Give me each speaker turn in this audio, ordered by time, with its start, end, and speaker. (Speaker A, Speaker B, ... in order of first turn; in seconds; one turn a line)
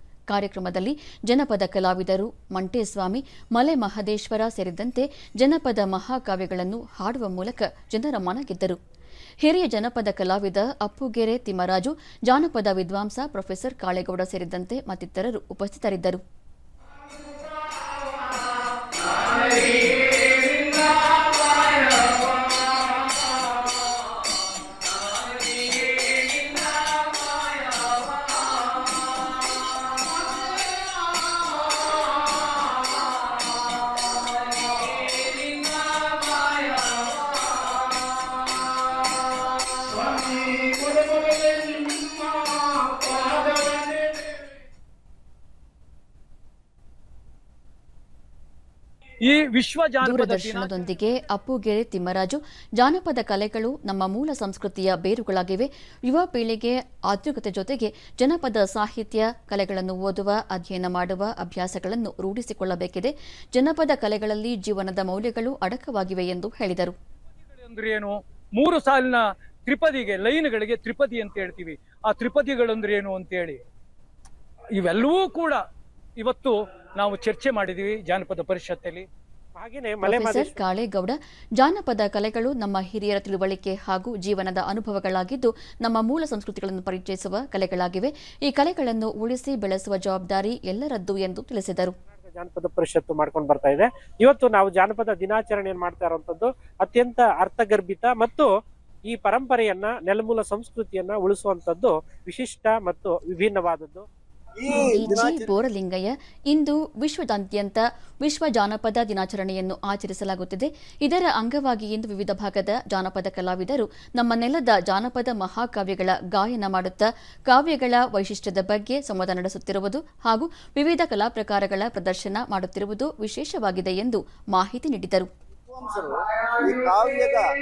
Speaker A: 0.3-8.8
Speaker A: 9.4-16.2
Speaker B: 49.2-50.7
Speaker A: 50.0-66.9
Speaker B: 67.5-73.6
Speaker B: 74.7-75.6
Speaker B: 76.2-79.0
Speaker C: 79.5-80.5
Speaker A: 80.0-91.9
Speaker C: 92.0-98.5
Speaker C: 99.1-104.0
Speaker D: 104.6-105.5
Speaker A: 104.7-125.3
Speaker D: 125.6-127.5